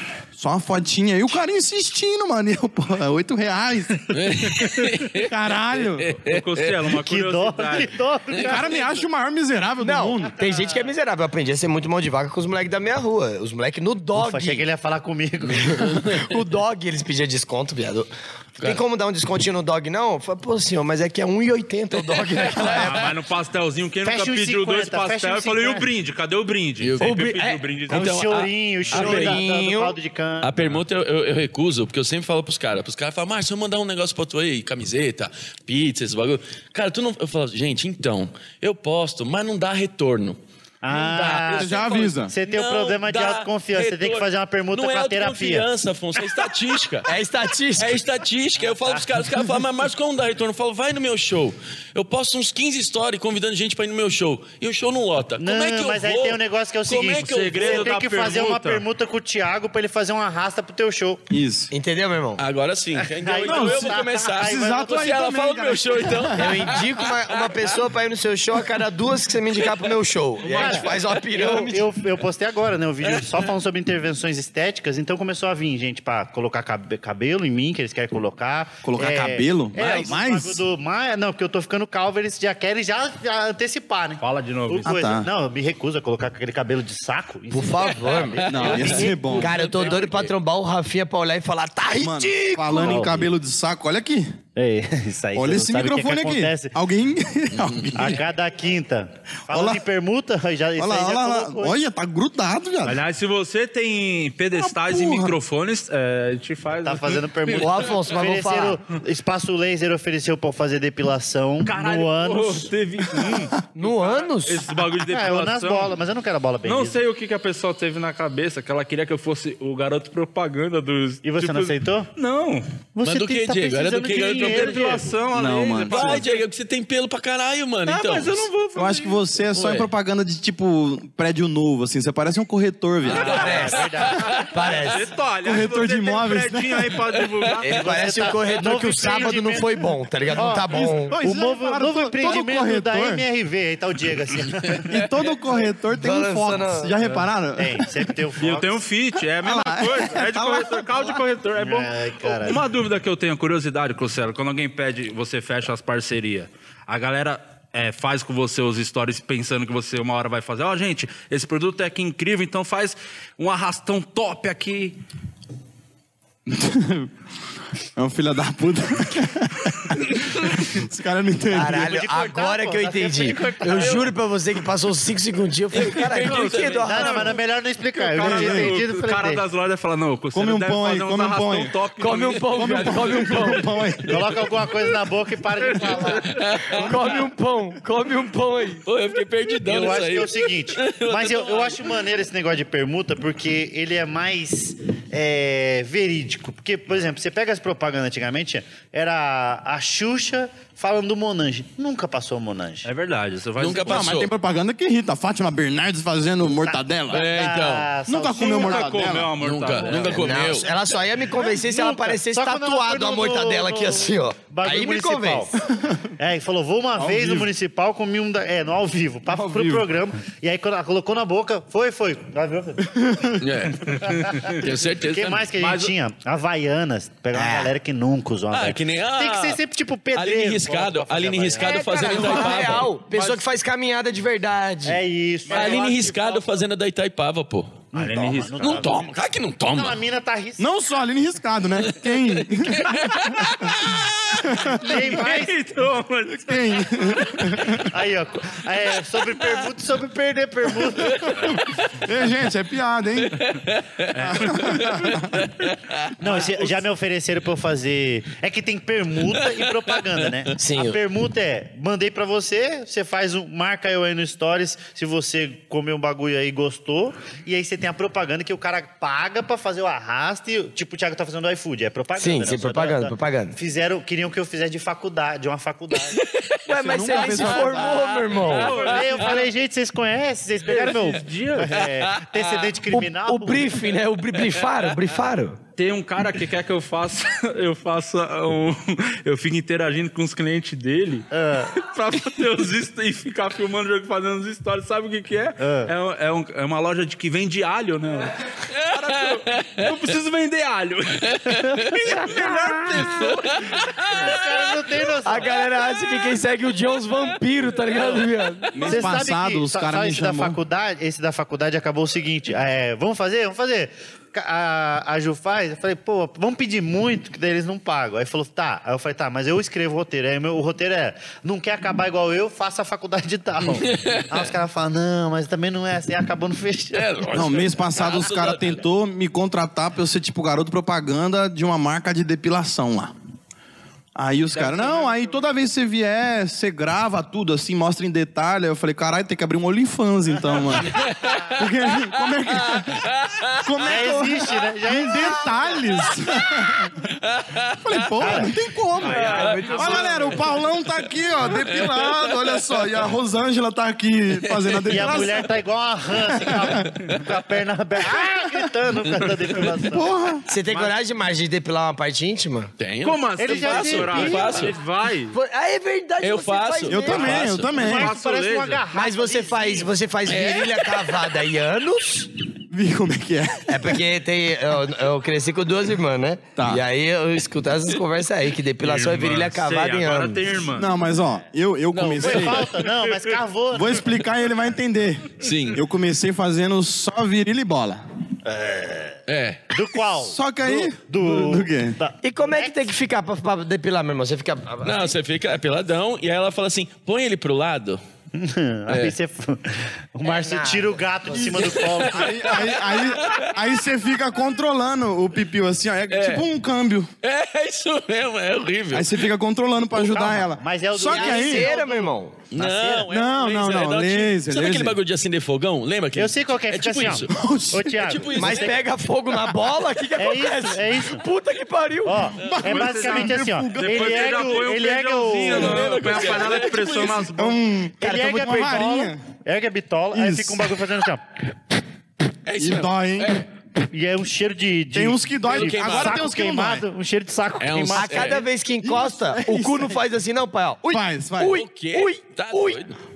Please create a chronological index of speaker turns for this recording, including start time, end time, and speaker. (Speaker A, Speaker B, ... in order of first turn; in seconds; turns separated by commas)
Speaker A: 0.3-6.1, Speaker B: 4.1-5.3, Speaker B: 5.9-6.7, Speaker C: 6.2-8.0, Speaker D: 6.9-9.0, Speaker A: 8.4-10.3, Speaker E: 9.8-14.6, Speaker D: 10.4-10.9, Speaker D: 14.1-16.0, Speaker E: 15.5-23.1, Speaker A: 22.5-22.7, Speaker C: 22.6-28.1, Speaker D: 24.0-25.9, Speaker B: 26.8-27.4, Speaker E: 27.0-28.0, Speaker B: 27.9-29.4, Speaker D: 27.9-30.5, Speaker E: 28.9-30.0, Speaker B: 30.4-40.4, Speaker D: 40.8-45.7, Speaker B: 41.1-41.9, Speaker A: 41.5-42.3, Speaker B: 42.5-47.1, Speaker E: 47.0-48.0, Speaker B: 47.8-57.9, Speaker D: 48.6-49.1, Speaker D: 55.4-61.2, Speaker C: 57.2-58.8, Speaker A: 61.3-61.7, Speaker E: 61.7-62.4, Speaker B: 62.4-67.6, Speaker D: 63.0-65.1, Speaker A: 63.5-66.7, Speaker E: 66.3-71.9, Speaker B: 70.5-71.0, Speaker D: 70.5-90.0, Speaker B: 73.0-73.5, Speaker A: 78.8-80.6, Speaker C: 84.2-84.9, Speaker A: 84.8-85.3, Speaker E: 87.5-93.2, Speaker B: 88.2-90.3, Speaker A: 88.5-89.6, Speaker A: 92.0-94.3, Speaker D: 92.8-93.3, Speaker D: 94.6-96.7, Speaker A: 95.3-98.2, Speaker B: 97.6-98.0, Speaker D: 98.0-101.8, Speaker A: 99.5-99.8, Speaker A: 100.8-103.0, Speaker C: 102.8-107.5, Speaker A: 104.6-105.3, Speaker D: 106.8-112.7, Speaker E: 107.5-108.8, Speaker C: 111.7-115.9, Speaker E: 113.7-114.7, Speaker D: 115.1-117.0, Speaker C: 116.7-122.6, Speaker D: 121.2-122.1, Speaker D: 123.0-125.1, Speaker B: 123.0-125.0, Speaker C: 124.2-126.4, Speaker A: 125.3-126.2, Speaker B: 125.9-128.5, Speaker C: 127.9-129.2, Speaker A: 128.8-133.5, Speaker D: 133.1-134.5, Speaker E: 133.1-133.8, Speaker C: 133.2-138.2, Speaker B: 133.4-134.2, Speaker E: 134.4-135.1, Speaker A: 135.4-137.0, Speaker E: 137.6-141.2, Speaker D: 137.7-139.8, Speaker D: 140.3-145.1, Speaker A: 140.7-143.2, Speaker A: 144.9-148.1, Speaker E: 146.0-146.9, Speaker D: 147.6-148.8, Speaker C: 148.4-165.0, Speaker A: 149.4-151.2, Speaker D: 151.6-152.6, Speaker A: 166.5-167.1, Speaker A: 168.0-172.0, Speaker E: 171.5-177.3, Speaker D: 171.7-174.1, Speaker B: 173.3-174.1, Speaker B: 175.7-177.1, Speaker C: 176.2-177.4, Speaker D: 176.8-179.4, Speaker C: 177.9-183.6, Speaker A: 178.2-178.8, Speaker A: 180.3-181.8, Speaker E: 182.0-183.7, Speaker A: 182.5-184.3, Speaker D: 184.1-186.4, Speaker C: 185.7-186.4, Speaker B: 186.3-186.9, Speaker E: 186.7-188.8, Speaker B: 188.8-192.0, Speaker D: 189.7-202.9, Speaker C: 202.8-204.1, Speaker B: 203.6-204.3, Speaker A: 203.8-207.3, Speaker D: 206.5-208.9, Speaker B: 207.1-207.9, Speaker A: 208.1-209.3, Speaker C: 208.3-210.3, Speaker B: 209.4-210.7, Speaker E: 210.1-215.5, Speaker D: 211.3-215.5, Speaker A: 215.7-216.1, Speaker D: 216.2-222.9, Speaker A: 217.0-217.5, Speaker A: 219.3-219.8, Speaker A: 222.9-223.4, Speaker B: 223.4-225.5, Speaker C: 223.9-224.6, Speaker D: 224.0-233.3, Speaker C: 225.6-225.9, Speaker E: 227.3-227.7, Speaker B: 228.5-229.6, Speaker B: 230.2-232.9, Speaker E: 231.6-235.0, Speaker D: 234.8-236.6, Speaker B: 235.5-237.9, Speaker C: 235.5-235.8, Speaker C: 237.9-238.9, Speaker D: 237.9-239.1, Speaker B: 238.6-240.0, Speaker D: 239.7-240.7, Speaker A: 240.6-243.7, Speaker B: 241.8-244.4, Speaker A: 244.4-245.2, Speaker D: 244.7-245.6, Speaker C: 244.8-247.4, Speaker A: 246.3-247.9, Speaker D: 247.8-251.6, Speaker B: 250.9-251.9, Speaker A: 251.4-253.5, Speaker B: 253.3-256.7, Speaker C: 254.2-254.6, Speaker A: 254.2-255.5, Speaker D: 256.2-276.2, Speaker B: 259.3-260.3, Speaker E: 260.6-261.0, Speaker E: 272.2-273.6, Speaker B: 276.1-276.6, Speaker E: 276.7-278.8, Speaker A: 276.7-278.0, Speaker B: 277.1-279.4, Speaker C: 278.5-279.5, Speaker D: 278.5-283.8, Speaker C: 280.7-281.8, Speaker B: 281.8-282.7, Speaker E: 282.9-285.6, Speaker C: 285.8-298.4, Speaker D: 291.3-291.7, Speaker D: 295.6-295.9, Speaker B: 298.8-299.9, Speaker C: 298.9-303.5, Speaker B: 301.5-302.1, Speaker A: 302.4-303.3, Speaker B: 303.1-304.8, Speaker D: 304.1-305.6, Speaker E: 305.2-308.9, Speaker D: 308.0-308.2, Speaker A: 308.7-310.6, Speaker D: 308.8-327.2, Speaker B: 323.7-324.5, Speaker B: 326.9-328.8, Speaker A: 327.3-333.1, Speaker A: 334.1-341.0, Speaker C: 334.6-335.2, Speaker B: 340.9-341.6, Speaker A: 341.6-347.1, Speaker B: 342.6-344.0, Speaker D: 343.8-345.9, Speaker B: 347.3-347.8, Speaker A: 347.8-355.5, Speaker D: 348.2-348.5, Speaker C: 349.0-350.6, Speaker E: 349.0-350.5, Speaker B: 349.4-349.7, Speaker B: 351.5-353.0, Speaker B: 354.5-355.4, Speaker D: 354.9-360.1, Speaker A: 356.2-356.9, Speaker B: 357.1-357.4, Speaker A: 359.8-360.5, Speaker E: 360.5-362.7, Speaker B: 362.8-364.8, Speaker C: 363.0-365.4, Speaker D: 363.4-364.8, Speaker E: 365.3-367.5, Speaker B: 366.2-367.8, Speaker A: 366.9-368.1, Speaker C: 367.7-368.8, Speaker D: 367.7-369.9, Speaker E: 368.9-372.3, Speaker B: 370.3-371.1, Speaker A: 372.7-374.0, Speaker E: 373.7-380.4, Speaker A: 376.6-376.8, Speaker C: 378.8-380.9, Speaker A: 380.7-382.7, Speaker B: 381.9-383.4, Speaker D: 382.2-384.2, Speaker A: 383.7-388.0, Speaker B: 385.4-385.8, Speaker D: 388.4-389.2, Speaker B: 389.3-389.8, Speaker D: 389.7-392.8, Speaker A: 390.2-392.0, Speaker E: 392.2-395.1, Speaker B: 394.8-398.0, Speaker D: 398.3-402.6, Speaker B: 398.9-399.1, Speaker E: 400.2-401.9, Speaker B: 401.6-403.5, Speaker A: 402.1-407.1, Speaker B: 406.1-406.5, Speaker B: 407.2-409.2, Speaker A: 408.9-411.7, Speaker D: 409.9-413.1, Speaker E: 411.1-412.4, Speaker B: 412.5-417.3, Speaker A: 413.1-415.0, Speaker D: 416.2-418.8, Speaker A: 417.3-418.0, Speaker B: 417.9-418.8, Speaker E: 418.3-422.3, Speaker D: 420.2-421.2, Speaker D: 422.1-425.8, Speaker A: 422.4-424.6, Speaker C: 422.6-427.6, Speaker B: 425.5-427.3, Speaker A: 427.4-429.2, Speaker D: 428.0-431.2, Speaker A: 430.1-430.8, Speaker B: 432.5-433.5, Speaker A: 432.6-433.4, Speaker D: 433.9-438.4, Speaker A: 434.9-436.9, Speaker B: 435.5-436.3, Speaker B: 437.6-438.4, Speaker E: 437.9-442.8, Speaker A: 438.8-440.0, Speaker A: 440.9-441.6, Speaker B: 441.4-443.0